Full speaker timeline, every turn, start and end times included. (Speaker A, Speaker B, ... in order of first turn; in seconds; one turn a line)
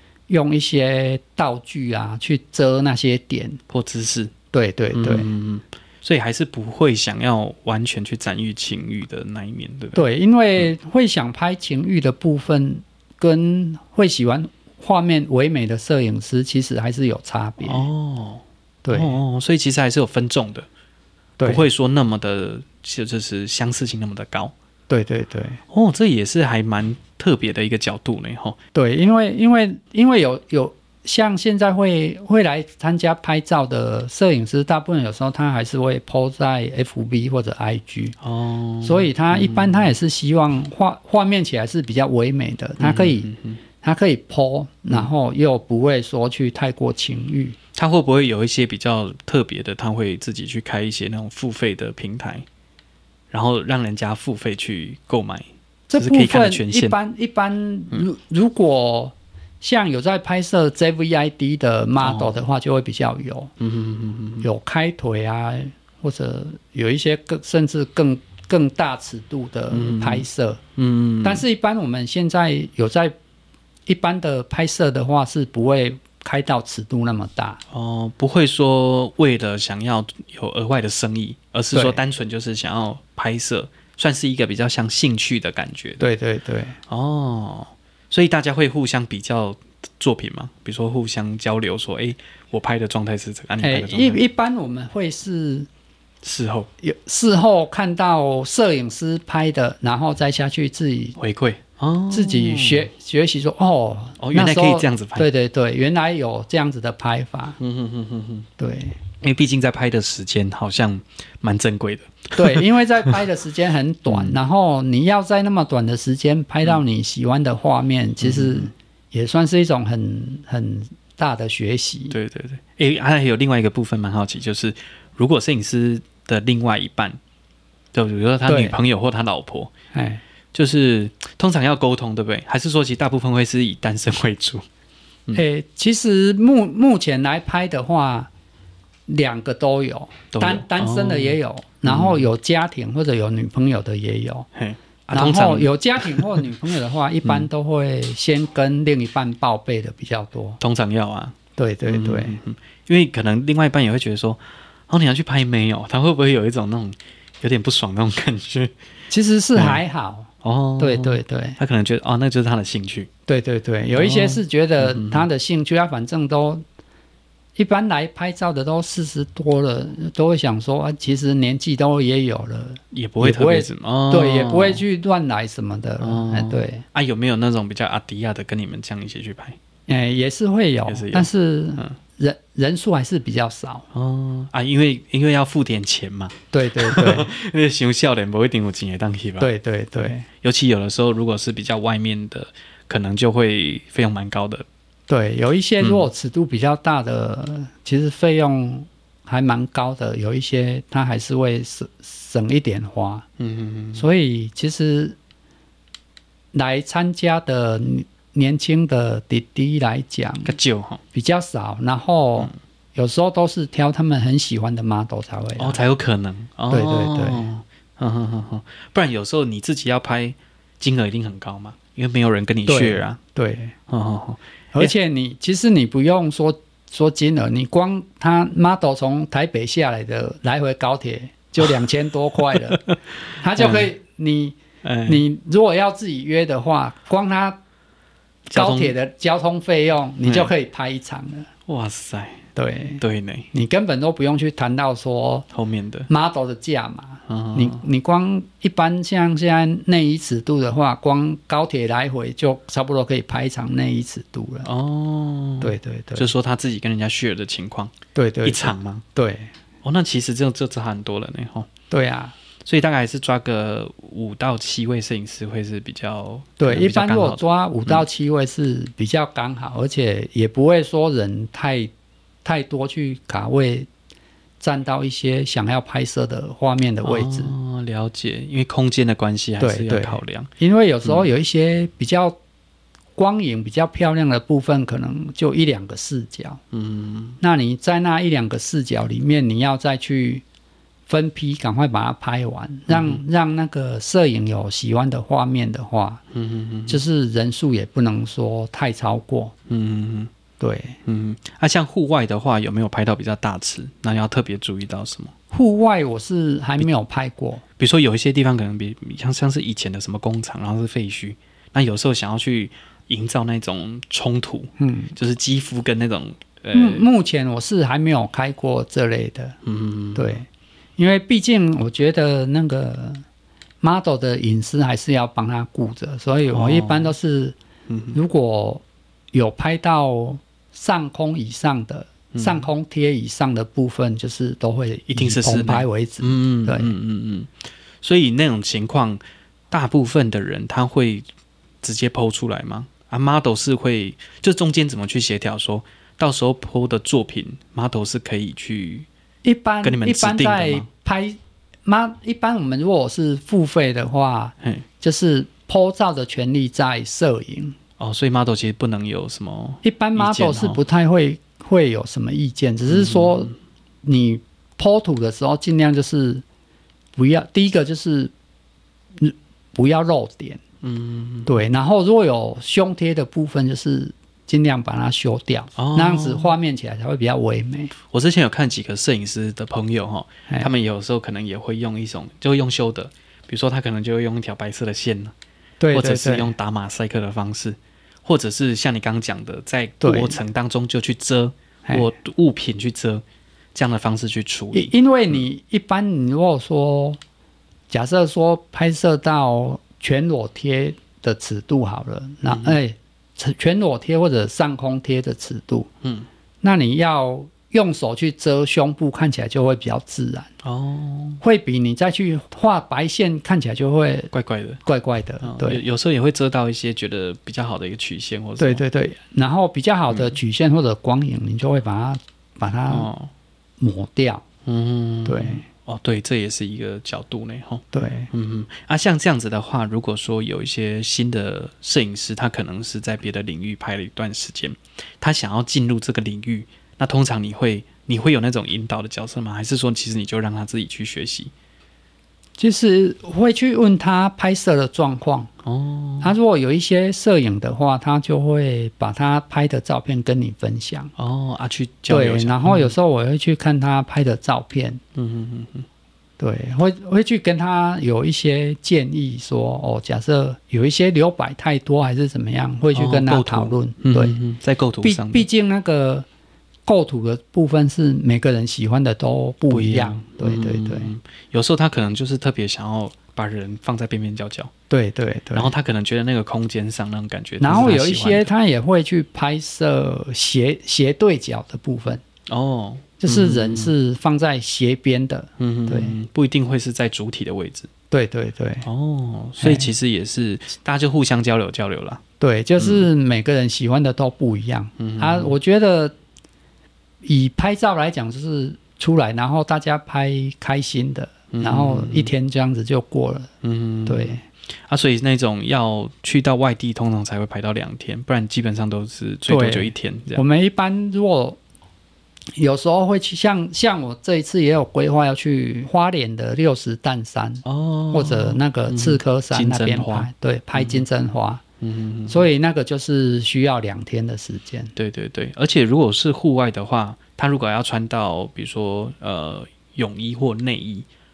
Speaker A: 0.3-3.6
Speaker B: 3.7-4.3
Speaker A: 4.5-5.3
Speaker B: 4.9-10.0
Speaker A: 9.9-17.9
Speaker B: 17.6-20.7
Speaker A: 18.8-19.2
Speaker A: 21.4-21.7
Speaker B: 21.4-24.5
Speaker A: 24.9-25.6
Speaker B: 25.7-28.6
Speaker A: 28.7-38.2
Speaker B: 38.2-39.9
Speaker A: 38.8-43.3
Speaker B: 42.8-43.6
Speaker A: 43.8-47.6
Speaker B: 47.8-52.5
Speaker B: 53.3-57.0
Speaker A: 55.9-63.5
Speaker B: 62.0-62.4
Speaker B: 63.6-64.5
Speaker A: 64.4-70.6
Speaker B: 69.7-71.5
Speaker A: 71.2-73.2
Speaker A: 73.9-77.6
Speaker B: 77.7-86.0
Speaker A: 81.7-82.0
Speaker A: 86.0-86.8
Speaker B: 86.9-94.2
Speaker A: 93.6-95.7
Speaker B: 96.2-96.7
Speaker A: 96.8-101.2
Speaker B: 101.2-102.9
Speaker A: 102.1-107.6
Speaker B: 104.2-105.3
Speaker B: 107.6-108.5
Speaker A: 108.6-109.0
Speaker B: 109.2-113.1
Speaker A: 112.4-122.2
Speaker B: 114.1-114.4
Speaker B: 118.2-118.7
Speaker B: 122.1-127.2
Speaker B: 127.9-129.7
Speaker A: 128.5-128.8
Speaker A: 129.9-130.2
Speaker B: 130.5-134.7
Speaker A: 135.3-138.3
Speaker A: 139.1-144.5
Speaker B: 140.3-142.3
Speaker B: 144.6-146.4
Speaker A: 145.1-150.6
Speaker B: 150.6-158.8
Speaker A: 151.6-152.4
Speaker A: 159.1-161.6
Speaker B: 159.6-159.8
Speaker B: 160.4-163.1
Speaker A: 163.3-166.6
Speaker B: 163.9-165.3
Speaker A: 167.6-176.8
Speaker B: 172.9-174.8
Speaker B: 176.0-179.6
Speaker A: 179.9-183.9
Speaker B: 180.9-181.9
Speaker B: 183.9-189.5
Speaker A: 186.5-187.3
Speaker A: 189.4-190.3
Speaker B: 190.3-194.7
Speaker A: 195.1-203.3
Speaker B: 195.8-196.1
Speaker B: 203.4-204.1
Speaker A: 203.9-205.2
Speaker A: 206.5-210.6
Speaker B: 210.4-211.0
Speaker A: 211.1-215.8
Speaker B: 215.6-223.2
Speaker A: 216.7-217.5
Speaker A: 222.7-223.8
Speaker B: 223.9-224.9
Speaker A: 224.7-232.8
Speaker B: 232.4-233.0
Speaker A: 233.4-237.6
Speaker B: 233.6-233.9
Speaker B: 234.8-235.2
Speaker B: 238.5-238.9
Speaker A: 238.5-241.5
Speaker B: 240.2-240.5
Speaker B: 241.7-242.4
Speaker A: 242.6-245.5
Speaker B: 243.0-243.5
Speaker B: 245.5-246.1
Speaker A: 246.1-254.7
Speaker B: 247.3-247.8
Speaker B: 254.6-259.1
Speaker A: 255.6-256.3
Speaker A: 258.1-259.5
Speaker B: 259.8-261.7
Speaker A: 261.9-262.4
Speaker B: 262.6-268.1
Speaker A: 266.6-271.9
Speaker A: 272.4-273.9
Speaker A: 274.6-277.5
Speaker B: 277.0-280.5
Speaker A: 279.6-282.4
Speaker B: 281.0-281.3
Speaker A: 283.2-286.6
Speaker B: 286.7-287.4
Speaker A: 287.4-290.4
Speaker A: 291.1-296.2
Speaker B: 292.9-293.2
Speaker B: 296.3-297.0
Speaker A: 296.9-299.5
Speaker B: 299.7-300.3
Speaker A: 300.6-301.0
Speaker B: 301.1-305.3
Speaker A: 305.5-307.6
Speaker B: 307.8-317.1
Speaker A: 314.8-315.1
Speaker A: 316.7-319.6
Speaker B: 319.6-320.4
Speaker A: 320.1-323.2
Speaker A: 323.8-327.6
Speaker B: 326.5-327.1
Speaker B: 327.9-328.2
Speaker A: 328.1-336.9
Speaker B: 332.3-332.6
Speaker B: 335.1-341.3
Speaker B: 341.8-349.1
Speaker A: 349.4-357.8
Speaker B: 349.8-350.9
Speaker B: 358.0-360.8
Speaker A: 359.8-363.5
Speaker B: 362.9-363.5
Speaker A: 364.0-366.4
Speaker A: 367.2-368.3
Speaker A: 369.2-370.6
Speaker B: 370.8-371.5
Speaker A: 371.4-377.9
Speaker B: 375.8-376.5
Speaker B: 378.1-385.3
Speaker A: 385.8-386.5
Speaker B: 385.9-395.4
Speaker A: 390.0-390.4
Speaker A: 394.7-397.2
Speaker A: 397.9-405.9
Speaker B: 402.5-402.8
Speaker B: 406.0-406.3
Speaker A: 406.6-410.5
Speaker B: 410.6-411.4
Speaker A: 411.4-414.3
Speaker B: 414.3-414.8
Speaker A: 414.9-415.8
Speaker B: 415.4-418.8
Speaker A: 418.6-423.1
Speaker B: 420.1-420.4
Speaker B: 422.9-423.3
Speaker A: 423.8-424.4
Speaker B: 424.6-441.5
Speaker A: 425.3-425.6
Speaker A: 427.9-428.3
Speaker A: 442.6-445.5
Speaker B: 445.6-446.3
Speaker A: 446.2-451.1
Speaker B: 451.2-452.9
Speaker A: 452.1-455.0
Speaker B: 455.1-455.9
Speaker A: 456.4-464.4
Speaker B: 462.9-465.5
Speaker A: 465.0-466.3
Speaker A: 466.9-471.1
Speaker B: 469.7-474.7
Speaker A: 474.9-475.7
Speaker B: 475.5-478.5
Speaker A: 477.6-482.2
Speaker B: 482.5-483.9
Speaker A: 483.2-486.1
Speaker B: 485.6-487.9
Speaker A: 488.1-488.9
Speaker B: 488.8-492.2
Speaker A: 489.6-489.9
Speaker A: 492.4-496.1
Speaker B: 492.8-493.1
Speaker B: 495.0-495.6
Speaker A: 497.2-503.5
Speaker B: 501.5-502.3
Speaker B: 503.6-510.4
Speaker A: 504.1-504.4
Speaker A: 509.5-511.6
Speaker A: 512.6-521.6
Speaker B: 517.6-521.0
Speaker B: 521.8-522.5
Speaker A: 522.3-524.9
Speaker B: 525.0-531.1